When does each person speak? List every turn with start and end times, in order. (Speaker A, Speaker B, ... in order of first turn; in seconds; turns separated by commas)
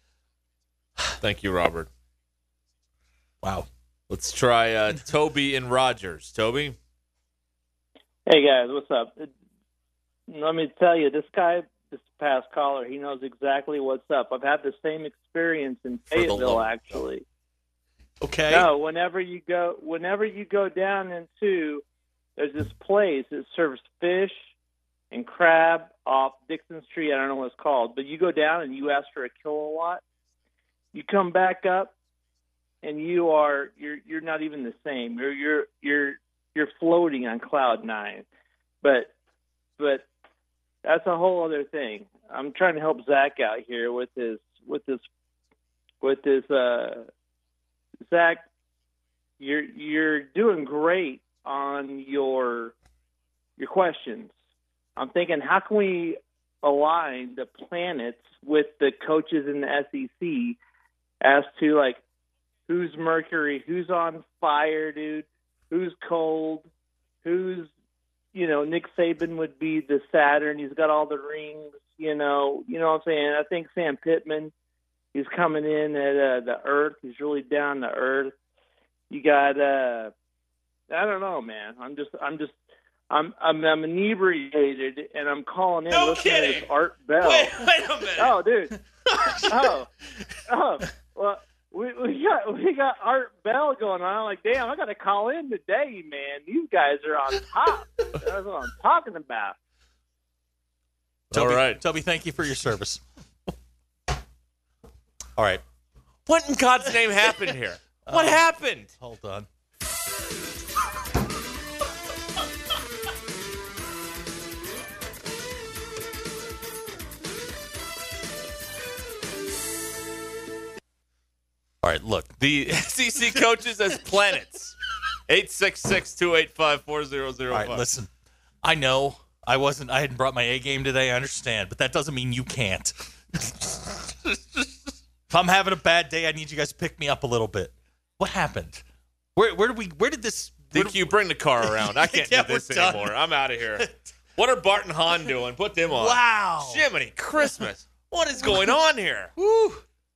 Speaker A: 1.0-1.9, Speaker B: 3.4-3.7, Speaker A: 4.1-6.8, Speaker C: 8.2-9.3, Speaker C: 10.3-17.2, Speaker A: 16.1-17.0, Speaker B: 18.2-18.7, Speaker C: 18.5-21.8, Speaker C: 22.4-24.4, Speaker C: 25.1-30.0, Speaker C: 30.9-31.9, Speaker C: 32.8-38.2, Speaker C: 38.8-39.1, Speaker C: 39.8-40.1, Speaker C: 40.8-45.0, Speaker C: 46.0-47.1, Speaker C: 48.1-48.5, Speaker C: 49.4-52.7, Speaker C: 53.6-54.3, Speaker C: 55.0-60.6, Speaker C: 61.2-62.0, Speaker C: 62.7-66.7, Speaker C: 67.2-67.7, Speaker C: 68.3-74.5, Speaker C: 75.1-78.3, Speaker C: 79.1-80.1, Speaker C: 80.9-82.5, Speaker C: 83.1-87.7, Speaker A: 85.9-86.7, Speaker A: 87.2-88.4, Speaker C: 88.2-88.7, Speaker B: 89.2-89.5, Speaker C: 89.5-89.9, Speaker C: 90.5-99.6, Speaker A: 101.3-101.8, Speaker B: 101.3-103.0, Speaker B: 105.4-105.6, Speaker A: 106.3-108.9, Speaker B: 108.0-109.5, Speaker B: 121.8-123.4, Speaker A: 122.6-124.8, Speaker A: 125.3-127.8, Speaker B: 127.5-128.1, Speaker B: 128.6-133.1, Speaker B: 135.3-138.8, Speaker B: 139.3-143.1, Speaker A: 140.7-149.3, Speaker B: 143.8-144.0, Speaker B: 145.9-146.9, Speaker B: 147.4-147.7, Speaker B: 148.3-148.8, Speaker B: 149.4-149.8